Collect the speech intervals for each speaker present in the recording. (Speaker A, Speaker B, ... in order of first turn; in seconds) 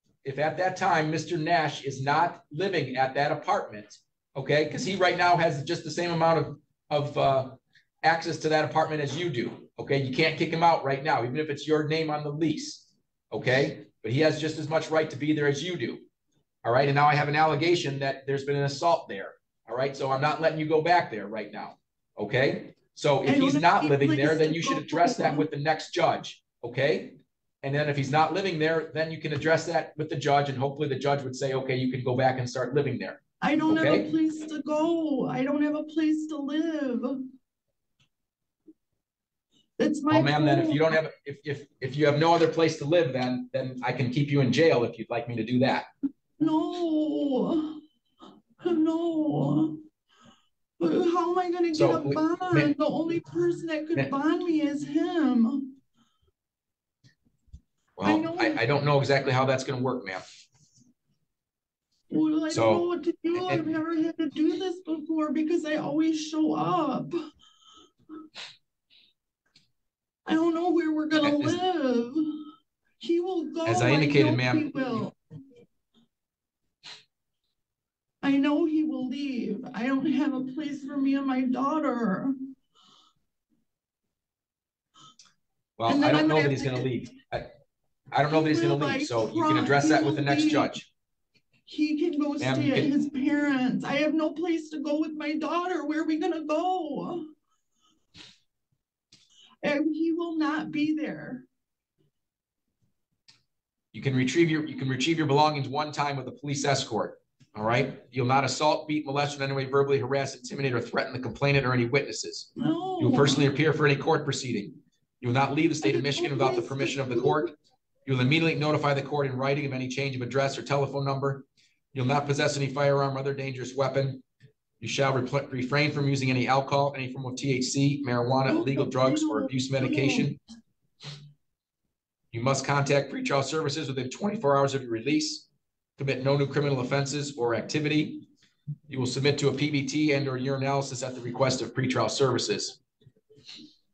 Speaker A: 0.2-16.0, 16.6-34.1, 40.1-45.9, 51.7-52.7, 58.0-60.2, 62.5-63.6, 71.2-71.6, 73.6-74.9, 85.8-87.5, 88.1-90.9, 92.4-92.9, 103.9-117.5, 118.0-124.2, 124.8-130.4, 132.3-135.4, 136.0-138.2, 138.9-142.8
Speaker B: 23.2-25.4, 33.4-37.2, 39.8-41.0, 46.4-47.8, 48.6-49.8, 50.8-55.7, 58.0-58.6, 62.1-67.2, 70.2-72.4, 73.0-75.1, 78.2-82.3, 85.9-86.9, 88.3-90.7, 91.7-97.3, 99.6-101.5, 112.6-113.4, 115.8-117.5, 128.5-130.3